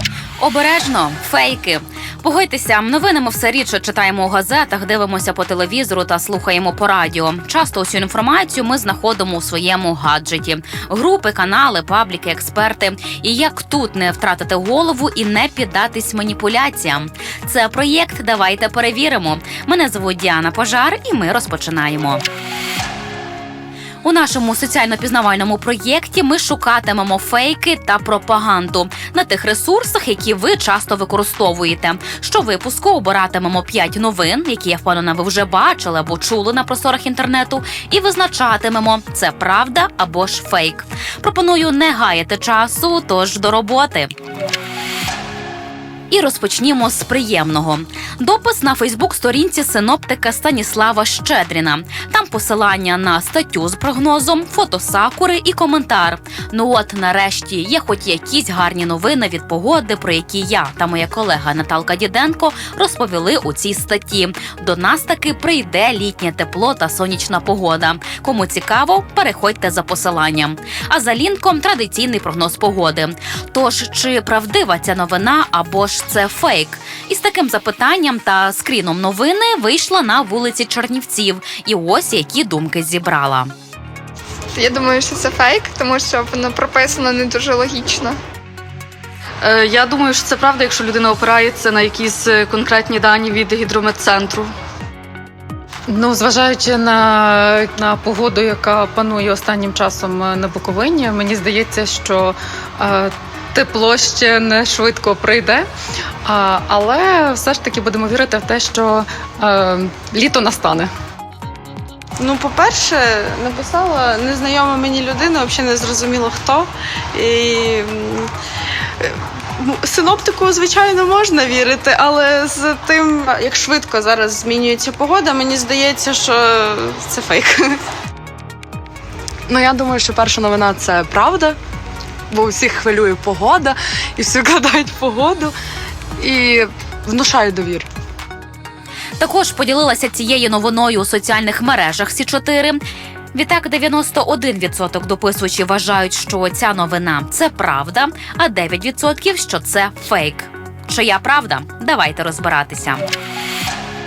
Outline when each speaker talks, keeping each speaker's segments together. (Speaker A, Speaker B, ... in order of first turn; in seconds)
Speaker A: 0.4-22.2, 24.0-44.1, 46.1-83.5, 139.2-142.8, 143.3-153.0
Speaker B: 84.6-88.1
Speaker C: 89.4-94.5
Speaker D: 95.9-105.6, 106.2-110.9
Speaker E: 112.2-118.3, 119.0-127.8
Speaker F: 129.5-131.6, 132.3-135.5, 136.2-137.9